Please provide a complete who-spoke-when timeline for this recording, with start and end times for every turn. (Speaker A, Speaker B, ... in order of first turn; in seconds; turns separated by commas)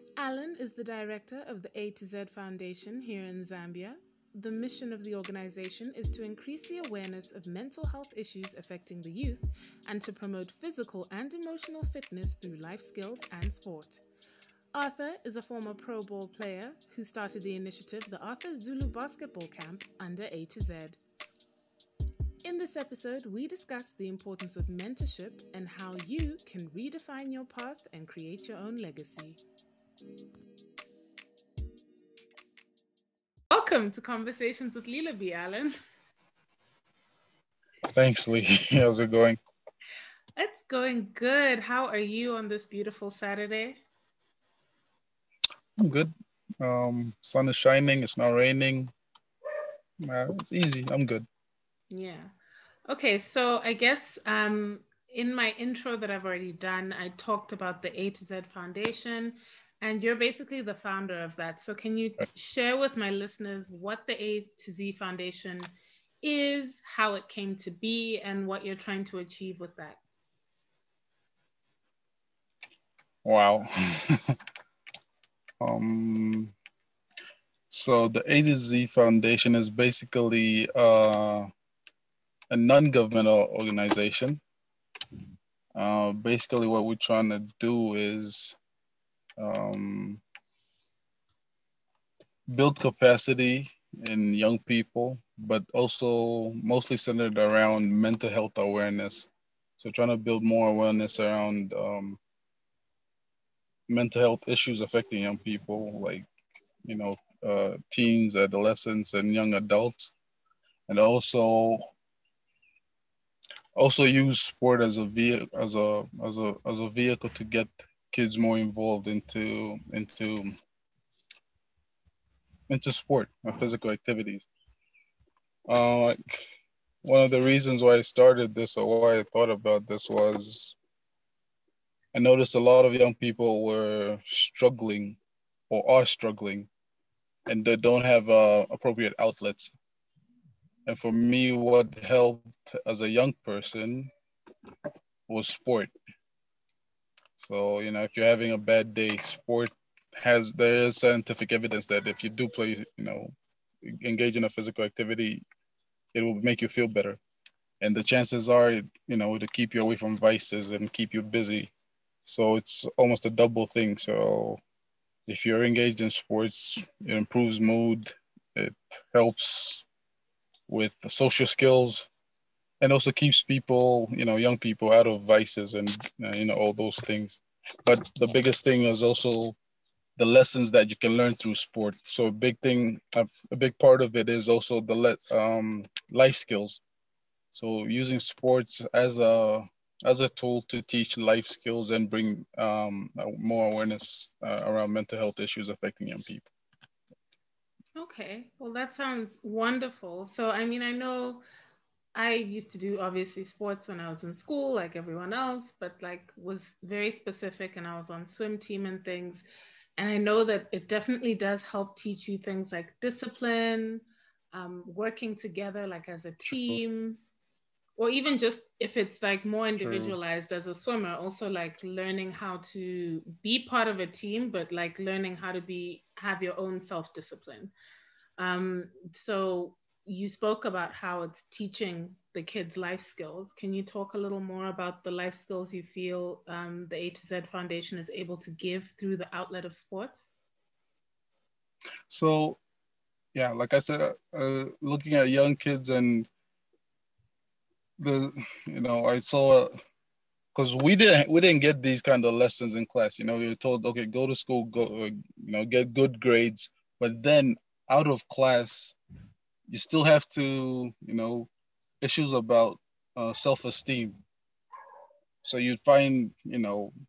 Speaker A: 0.2-14.0, Speaker A: 14.7-21.0, Speaker A: 22.4-29.4, Speaker A: 33.5-35.7, Speaker B: 37.9-39.4, Speaker A: 40.4-43.8, Speaker B: 45.8-48.9, Speaker B: 50.0-51.3, Speaker A: 51.9-52.3, Speaker A: 52.9-70.0, Speaker B: 73.2-74.4, Speaker B: 75.6-76.5, Speaker B: 77.7-81.5, Speaker B: 82.5-84.4, Speaker B: 85.8-88.6, Speaker B: 89.4-90.2, Speaker B: 92.5-102.2, Speaker B: 103.9-106.3, Speaker B: 106.8-110.1, Speaker B: 110.9-111.9, Speaker B: 113.8-120.5, Speaker B: 122.7-124.5, Speaker B: 125.7-126.2, Speaker B: 127.0-130.8, Speaker B: 132.1-135.2, Speaker B: 135.7-136.7, Speaker B: 137.5-139.7, Speaker B: 140.9-144.1, Speaker B: 145.3-145.9, Speaker B: 147.4-153.3, Speaker B: 153.9-155.4, Speaker B: 156.1-157.2, Speaker B: 157.8-161.7, Speaker B: 162.2-164.6, Speaker B: 165.3-169.9, Speaker B: 170.7-172.1, Speaker B: 172.8-179.6, Speaker B: 180.2-186.8, Speaker B: 187.5-196.5, Speaker A: 198.0-201.4, Speaker A: 202.2-209.4, Speaker A: 210.0-217.2, Speaker B: 216.4-216.8, Speaker A: 218.0-227.7, Speaker B: 219.8-220.2, Speaker A: 228.4-240.3, Speaker B: 242.1-242.6, Speaker B: 243.3-246.3, Speaker B: 248.0-249.7, Speaker B: 250.6-259.0, Speaker B: 259.7-261.5, Speaker B: 262.0-264.2, Speaker B: 265.4-266.9